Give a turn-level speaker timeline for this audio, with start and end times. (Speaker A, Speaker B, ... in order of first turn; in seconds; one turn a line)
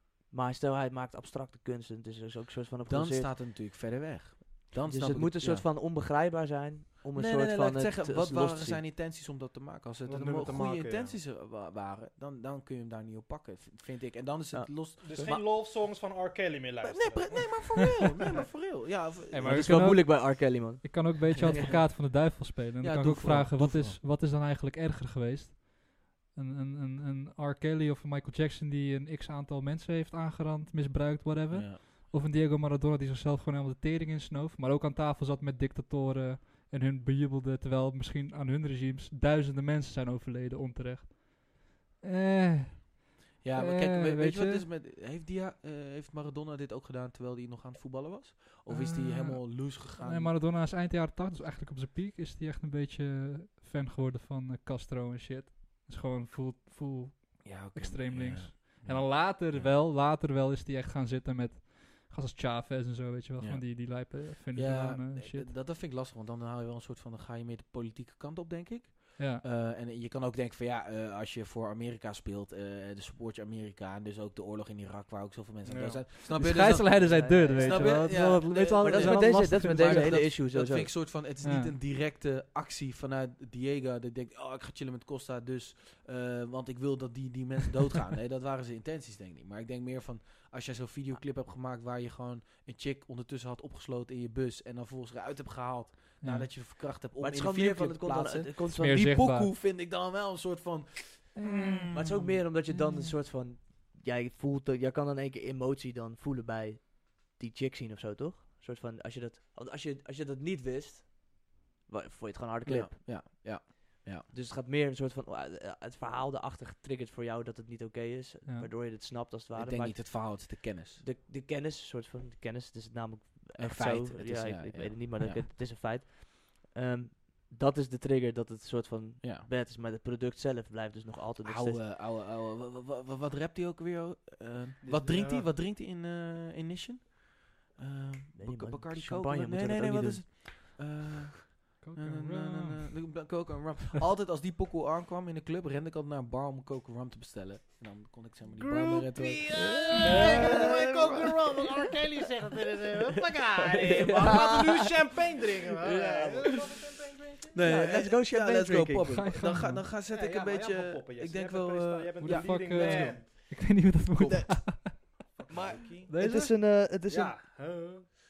Speaker A: 0.3-3.3
Speaker B: 2.9-5.7
Speaker A: 4.8-8.8
Speaker B: 7.2-15.6
Speaker C: 10.1-11.2
Speaker A: 14.5-15.3
Speaker C: 15.0-18.4
Speaker B: 16.8-19.9
Speaker D: 19.3-44.6
Speaker A: 19.4-21.8
Speaker B: 21.5-21.8
Speaker B: 22.8-24.0
Speaker B: 31.5-31.8
Speaker B: 43.4-50.3
Speaker D: 48.7-65.5
Speaker B: 57.4-59.8
Speaker B: 63.4-102.2
Speaker D: 69.2-69.4
Speaker C: 75.7-76.0
Speaker D: 76.2-80.3
Speaker A: 76.9-80.9
Speaker D: 81.4-81.7
Speaker D: 96.2-96.5
Speaker A: 97.2-99.1
Speaker D: 98.8-99.5
Speaker D: 101.4-103.1
Speaker A: 101.9-113.0
Speaker B: 112.7-114.3
Speaker A: 114.3-131.8
Speaker B: 119.6-121.0
Speaker B: 123.6-125.4
Speaker B: 129.2-129.5
Speaker B: 131.4-151.4
Speaker C: 134.8-135.5
Speaker A: 138.4-140.5
Speaker D: 141.8-143.2
Speaker C: 148.6-157.6
Speaker A: 149.5-151.3
Speaker A: 153.7-155.1
Speaker B: 154.2-154.4
Speaker B: 155.8-156.6
Speaker A: 156.0-156.5
Speaker B: 157.5-163.2
Speaker A: 157.6-159.2
Speaker D: 159.1-159.9
Speaker C: 160.1-163.3
Speaker D: 162.2-165.2
Speaker B: 164.2-165.8
Speaker C: 165.3-166.1
Speaker D: 166.1-166.7
Speaker A: 166.2-167.4
Speaker C: 167.1-168.1